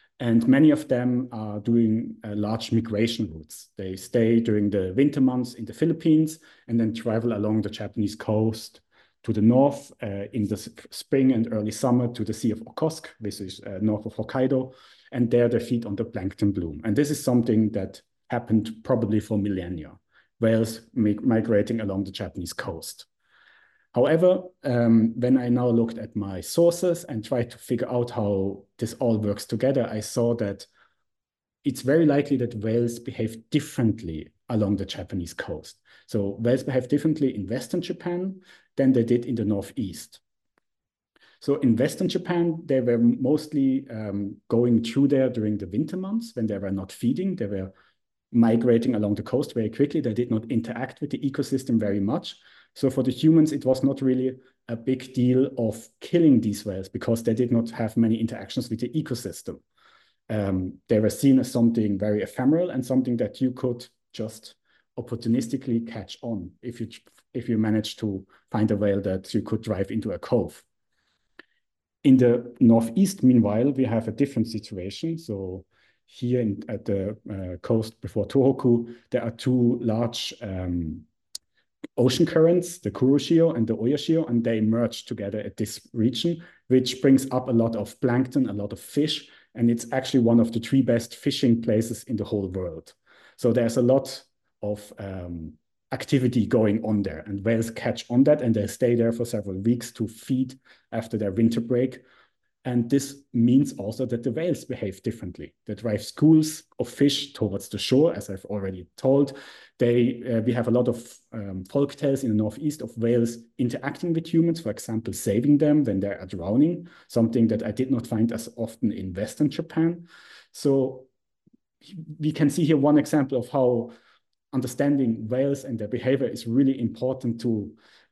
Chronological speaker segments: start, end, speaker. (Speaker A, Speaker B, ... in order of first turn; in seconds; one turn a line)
Speaker A: 0.2-23.1
Speaker A: 23.9-30.7
Speaker A: 31.6-40.2
Speaker A: 41.4-47.7
Speaker A: 48.3-59.6
Speaker A: 60.3-70.6
Speaker A: 72.0-81.0
Speaker A: 82.0-102.0
Speaker A: 102.6-121.1
Speaker A: 121.8-123.9
Speaker A: 124.5-127.8